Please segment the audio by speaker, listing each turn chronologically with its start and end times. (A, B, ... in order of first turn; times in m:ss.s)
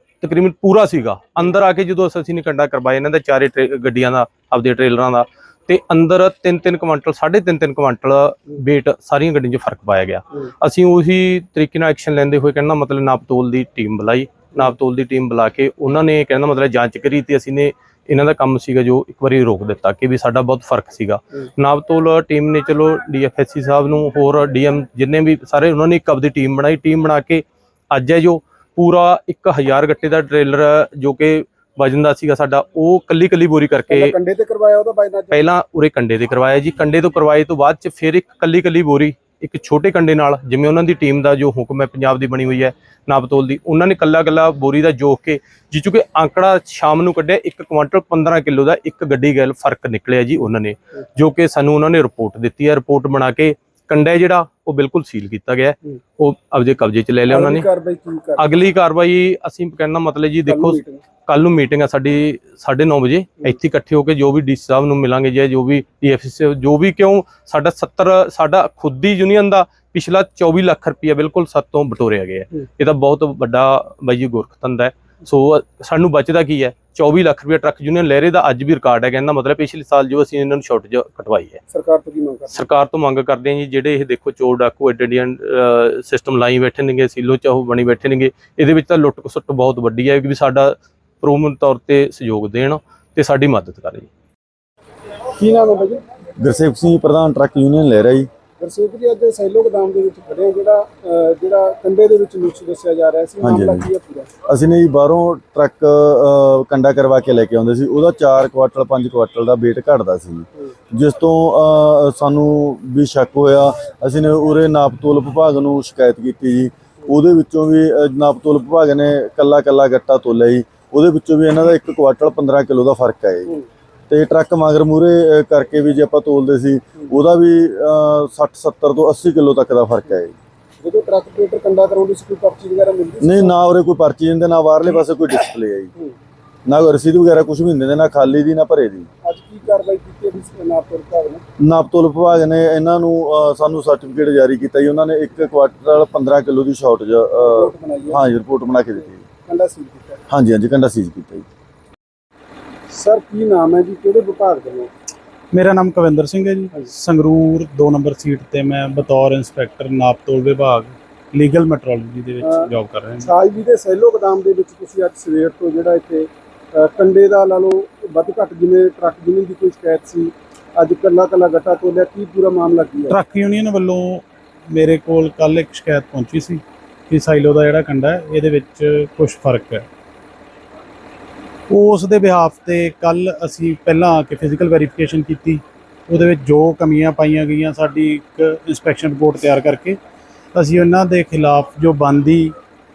0:00.2-0:34.1 A
0:33.9-0:35.5 B
0:35.3-0:57.7 A
0:57.3-0:58.6 B
0:58.4-1:21.6 A
1:00.5-1:01.0 B
1:21.7-1:22.7 B
1:22.5-1:34.1 A
1:35.4-1:36.0 B
1:36.4-1:38.3 C
1:38.6-1:44.3 B
1:43.4-1:43.9 C
1:44.5-2:03.5 C
2:04.1-2:10.4 C
2:10.8-2:13.6 B
2:13.2-2:15.9 C
2:16.7-2:19.1 C
2:19.2-2:21.4 B
2:21.6-2:29.2 C
2:27.4-2:28.3 B
2:29.0-2:30.2 B
2:30.3-2:31.5 C
2:32.9-2:34.9 B
2:35.5-2:43.3 D
2:42.4-2:53.2 B
2:53.1-2:59.9 D
3:01.7-3:10.0 D
3:10.5-3:12.5 D